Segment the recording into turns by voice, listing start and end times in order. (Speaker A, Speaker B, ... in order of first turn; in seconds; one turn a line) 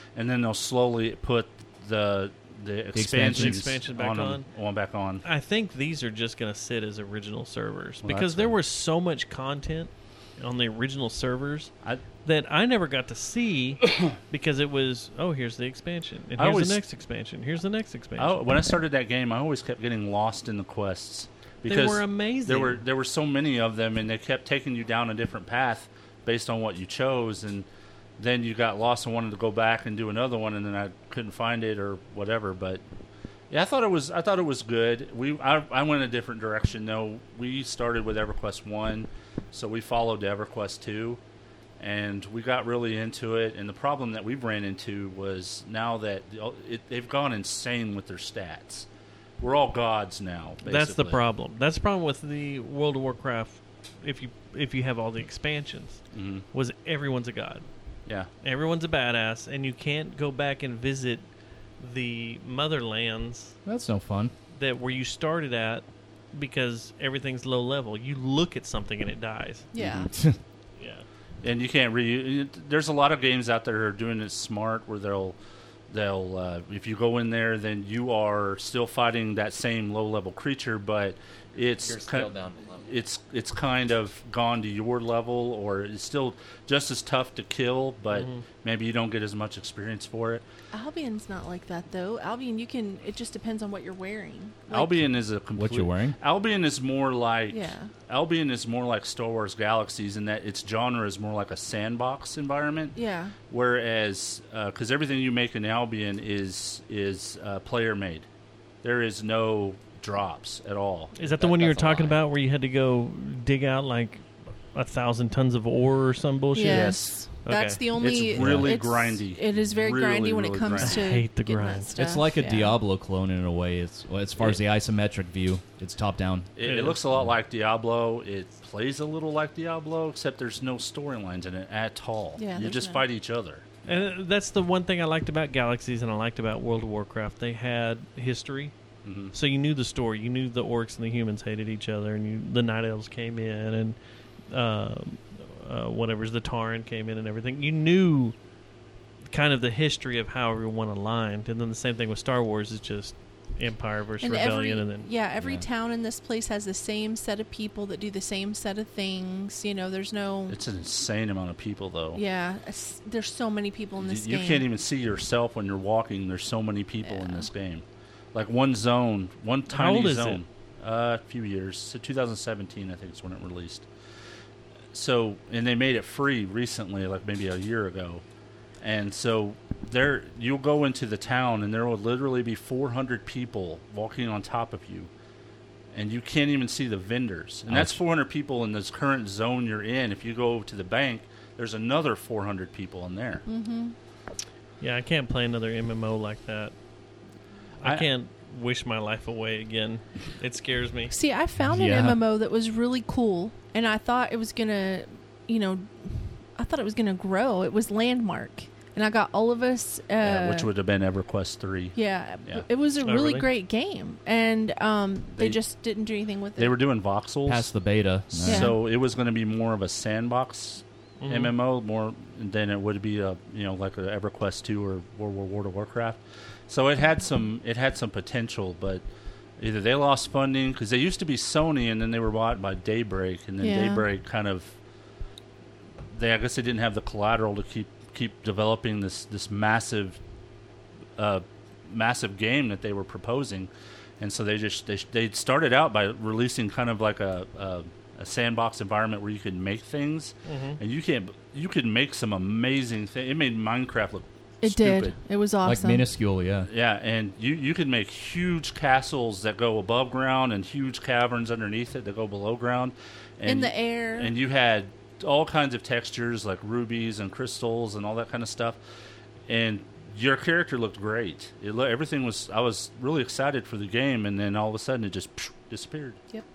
Speaker A: 0.2-5.2
Speaker B: 3.0-3.6
Speaker C: 3.3-4.5
Speaker C: 5.2-11.7
Speaker A: 8.0-8.6
Speaker C: 12.2-18.4
Speaker A: 16.4-16.8
Speaker A: 18.2-27.7
Speaker C: 21.7-22.8
Speaker A: 28.2-32.8
Speaker A: 33.5-41.2
Speaker A: 41.8-48.9
Speaker A: 49.4-51.2
Speaker C: 50.6-56.0
Speaker A: 56.1-56.5
Speaker C: 56.5-57.7
Speaker C: 58.4-61.2
Speaker C: 61.8-63.6
Speaker B: 63.6-64.3
Speaker C: 64.5-69.7
Speaker D: 69.7-70.1
Speaker B: 69.8-70.4
Speaker C: 70.8-71.0
Speaker A: 71.4-75.4
Speaker A: 75.9-82.3
Speaker E: 81.6-83.0
Speaker A: 82.8-90.4
Speaker C: 88.1-88.4
Speaker D: 90.7-95.1
Speaker A: 94.7-103.0
Speaker B: 95.6-96.2
Speaker D: 97.5-97.9
Speaker D: 103.0-103.3
Speaker A: 103.5-108.3
Speaker A: 108.8-111.2
Speaker C: 111.2-117.8
Speaker E: 111.2-112.2
Speaker D: 116.5-122.8
Speaker A: 116.6-117.2
Speaker A: 118.0-121.0
Speaker B: 118.3-118.7
Speaker C: 120.8-121.9
Speaker B: 122.0-126.5
Speaker A: 126.6-133.9
Speaker C: 126.6-127.0
Speaker D: 132.4-133.0
Speaker C: 133.9-138.7
Speaker A: 139.0-139.3
Speaker C: 139.3-144.0
Speaker C: 144.5-148.3
Speaker C: 149.3-155.1
Speaker D: 154.2-160.6
Speaker B: 155.4-155.7
Speaker A: 160.5-162.2
Speaker D: 162.2-164.7
Speaker A: 164.0-173.9
Speaker D: 167.1-167.5
Speaker C: 169.7-170.4
Speaker A: 174.9-178.2
Speaker A: 178.8-185.1
Speaker A: 185.9-193.4
Speaker B: 187.7-188.0
Speaker D: 193.5-193.9
Speaker C: 194.8-196.7
Speaker C: 197.8-201.1
Speaker D: 201.1-210.7
Speaker B: 201.7-202.2
Speaker A: 210.2-212.6
Speaker D: 211.9-216.8
Speaker C: 213.0-213.5
Speaker A: 215.3-215.6
Speaker A: 216.6-217.7
Speaker B: 217.5-218.8
Speaker A: 218.3-229.0
Speaker D: 218.4-218.8
Speaker C: 221.2-221.6
Speaker A: 229.6-234.8
Speaker D: 233.6-234.1
Speaker A: 236.1-240.2
Speaker A: 241.2-255.2
Speaker C: 250.5-250.8
Speaker D: 254.6-256.1
Speaker B: 255.6-256.7
Speaker A: 256.7-268.8
Speaker D: 263.4-264.3
Speaker A: 269.5-276.2